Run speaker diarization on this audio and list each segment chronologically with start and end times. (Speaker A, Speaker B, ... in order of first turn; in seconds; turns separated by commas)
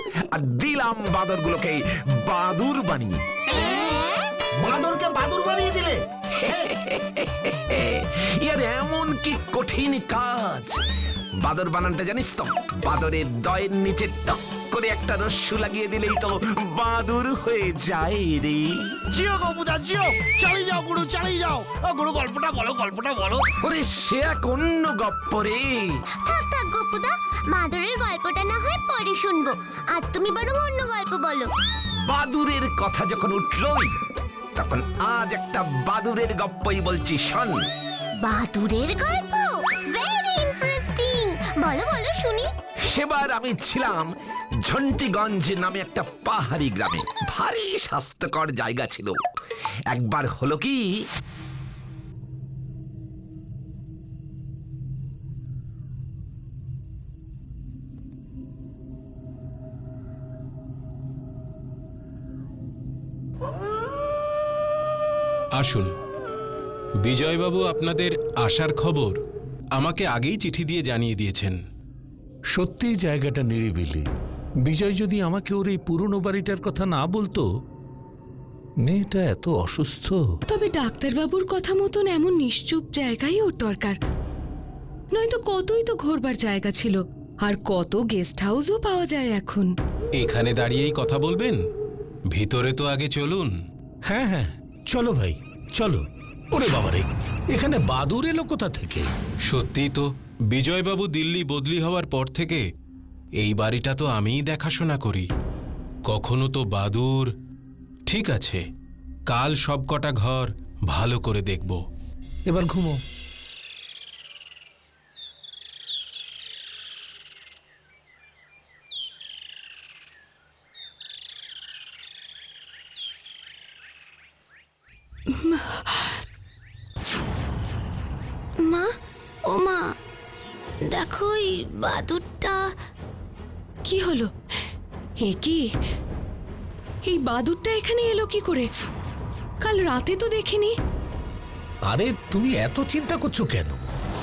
Speaker A: 0.3-3.2, Speaker B: 4.6-6.6, Speaker A: 6.7-10.7, Speaker A: 11.4-18.6, Speaker B: 19.1-23.5, Speaker A: 23.6-25.7, Speaker C: 26.2-31.5, Speaker A: 32.1-33.9, Speaker A: 34.5-37.5, Speaker C: 38.2-42.5, Speaker A: 42.9-44.1, Speaker A: 44.7-49.1, Speaker A: 49.9-50.9, Speaker D: 65.5-65.9, Speaker D: 67.0-69.2, Speaker D: 69.8-71.6, Speaker E: 72.5-74.0, Speaker E: 74.6-77.4, Speaker E: 78.8-80.2, Speaker F: 80.5-84.0, Speaker F: 85.1-89.7, Speaker D: 90.1-91.6, Speaker D: 92.3-93.5, Speaker E: 94.0-99.1, Speaker D: 99.5-102.6, Speaker D: 103.4-105.3, Speaker D: 106.1-107.3, Speaker D: 108.1-108.6, Speaker D: 109.3-111.8, Speaker E: 112.5-113.0, Speaker F: 125.3-126.1, Speaker C: 128.6-128.9, Speaker C: 129.5-129.9, Speaker C: 130.9-132.6, Speaker F: 133.8-134.3, Speaker F: 135.2-135.6, Speaker F: 137.0-138.7, Speaker F: 139.6-140.7, Speaker E: 141.9-143.9